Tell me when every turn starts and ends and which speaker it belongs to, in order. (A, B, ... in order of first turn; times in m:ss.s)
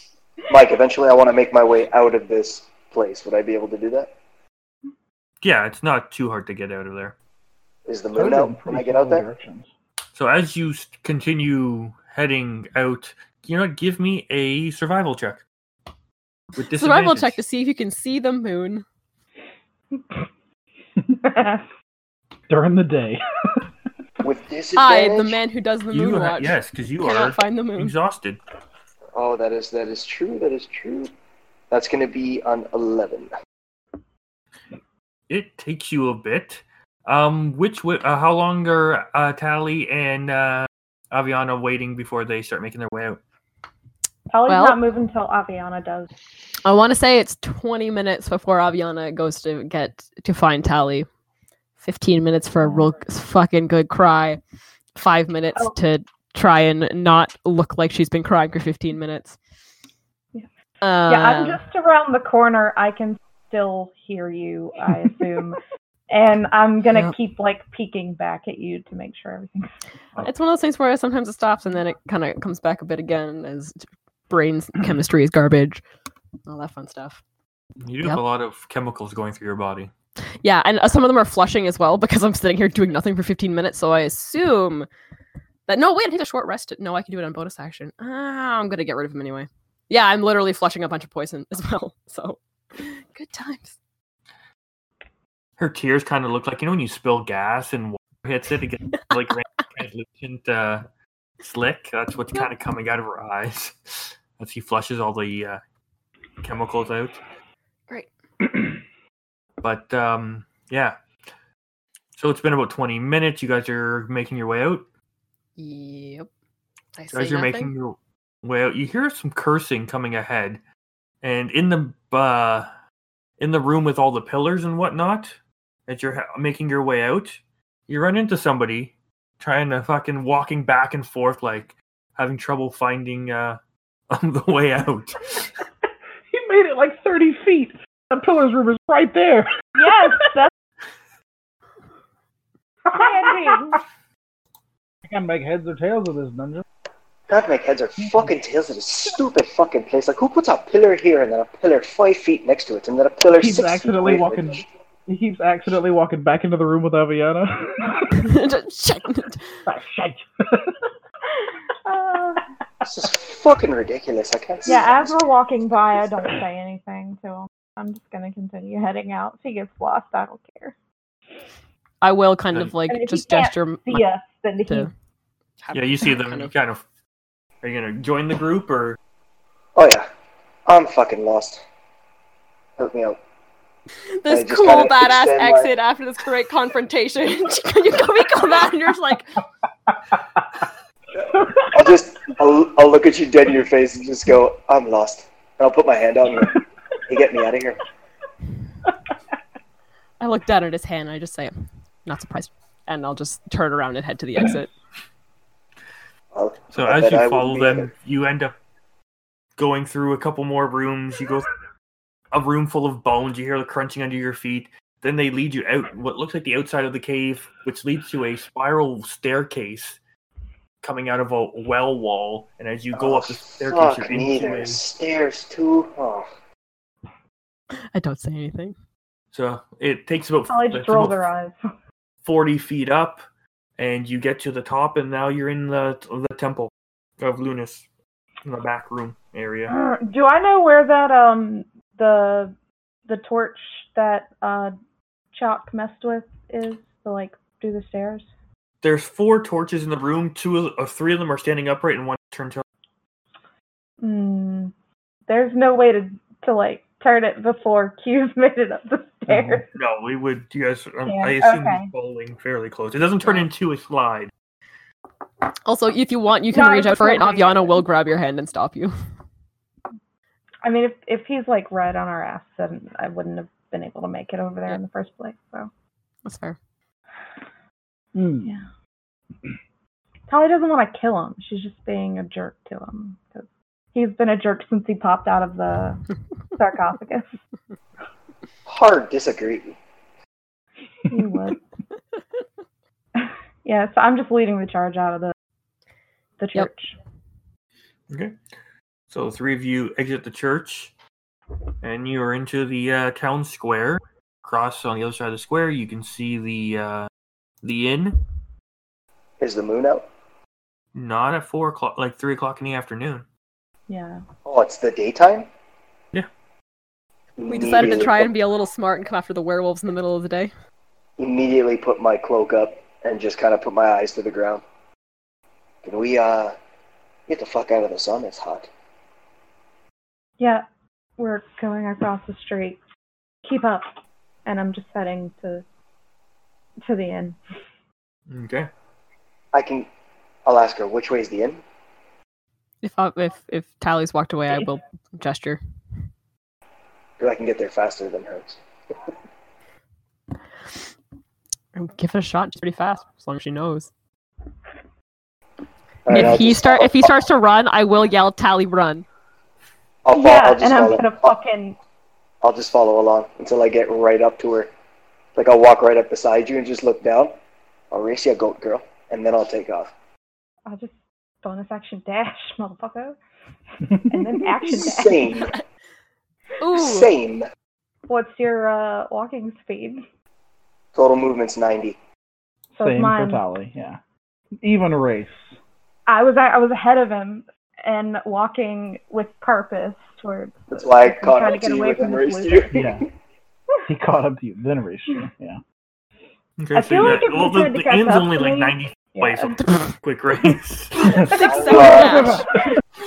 0:00.5-0:04.1 A
0:05.4-0:07.2 B
0:07.9-0:09.3 A
0:08.1-0:09.7 C
0:10.2-0:15.4 B
0:16.6-0:17.4 B
0:16.8-0:18.8 D
0:21.2-0:21.6 E
0:22.5-0:23.7 C
0:24.2-0:25.4 A
0:24.8-0:28.0 D
0:25.9-0:28.4 B
0:29.2-0:31.1 A
0:31.7-0:33.3 A
0:35.3-0:43.2 B
0:44.3-0:46.1 E
0:44.5-0:44.8 D
0:46.6-0:51.1 D
0:51.8-0:54.4 D
0:52.6-0:53.0 E
0:55.0-0:59.4 D
1:00.8-1:01.6 D
1:01.1-1:09.8 E
1:10.2-1:15.8 D
1:16.5-1:17.2 D
1:17.8-1:19.9 B
1:20.4-1:24.9 D
1:25.7-1:33.8 D
1:35.6-1:40.9 B
1:41.4-1:45.6 B
1:46.4-1:47.2 B
1:49.6-1:51.0 B
1:52.2-1:54.9 B
1:55.6-1:56.3 D
1:57.0-1:57.7 D
1:57.1-2:00.6 B
2:01.2-2:02.7 B
2:03.4-2:13.6 B
2:14.1-2:15.5 B
2:16.3-2:19.9 C
2:19.8-2:20.5 E
2:22.9-2:23.8 E
2:25.0-2:26.6 C
2:27.3-2:34.6 A
2:28.0-2:28.3 C
2:33.3-2:38.3 C
2:38.2-2:39.5 D
2:39.7-2:40.8 C
2:41.8-2:42.4 E
2:42.8-2:45.2 A
2:44.7-2:50.8 E
2:52.0-2:54.1 D
2:52.9-2:54.9 E
2:55.6-2:56.5 D
2:55.7-2:56.8 B
2:57.6-2:59.0 B
2:59.8-3:00.1 A
3:00.7-3:01.6 A
3:02.8-3:03.2 A
3:04.2-3:09.4 D
3:04.3-3:05.7 A
3:11.6-3:17.8 A
3:20.2-3:21.5 D
3:22.0-3:24.7 D
3:26.3-3:27.9 A
3:26.7-3:28.5 B
3:29.6-3:31.5 B
3:32.3-3:40.0 B
3:40.8-3:44.8 B
3:42.9-3:46.3 A
3:47.9-3:48.8 D
3:49.3-3:51.2 B
3:50.5-3:51.6 E
3:52.2-3:53.2 B
3:53.8-3:57.9 B
3:58.4-3:59.7 B
3:59.7-4:02.6 E
4:03.1-4:04.7 E
4:05.3-4:08.3 E
4:08.8-4:12.6 B
4:14.0-4:14.7 E
4:15.3-4:19.7 E
4:19.3-4:19.6 C
4:19.7-4:24.3 B
4:21.0-4:21.9 E
4:25.7-4:28.9 D
4:26.5-4:27.8 E
4:30.6-4:35.7 E
4:36.2-4:36.6 D
4:38.2-4:38.5 C
4:40.3-4:46.0 E
4:46.6-4:47.3 E
4:48.7-4:49.8 A
4:51.1-4:51.6 E
4:53.2-4:55.3 E
4:56.4-4:57.0 E
4:58.1-4:58.4 B
4:59.1-5:00.9 B
5:01.8-5:07.1 B
5:07.6-5:08.2 B
5:09.4-5:10.0 A
5:10.9-5:13.2 B
5:13.9-5:14.2 E
5:14.4-5:15.5 A
5:17.4-5:18.3 A
5:17.5-5:20.5 D
5:21.2-5:24.6 A
5:25.8-5:26.5 A
5:27.3-5:28.7 A
5:30.4-5:30.7 E
5:31.2-5:32.8 E
5:33.4-5:33.9 E
5:34.4-5:35.6 E
5:36.8-5:37.4 E
5:38.3-5:38.7 B
5:39.5-5:39.9 A
5:40.5-5:41.6 A
5:42.8-5:45.6 D
5:47.2-5:48.6 A
5:51.8-5:53.9 D
5:56.1-5:57.2 A
5:56.1-5:59.1 D
6:00.0-6:01.2 A
6:00.1-6:01.8 E
6:02.4-6:04.7 A
6:05.4-6:07.4 A
6:07.9-6:09.9 A
6:10.7-6:13.2 E
6:13.9-6:15.3 E
6:13.9-6:14.2 C
6:14.7-6:15.5 A
6:16.6-6:17.1 D
6:16.7-6:17.5 A
6:18.1-6:20.0 E
6:21.0-6:22.0 A
6:22.7-6:23.4 E
6:22.8-6:24.0 C
6:24.6-6:25.5 C
6:26.1-6:32.7 E
6:30.7-6:33.0 A
6:32.7-6:33.0 C
6:33.9-6:35.6 C
6:36.6-6:41.3 B
6:36.7-6:39.6 E
6:41.1-6:42.5 D
6:41.1-6:42.3 E
6:41.4-6:42.4 A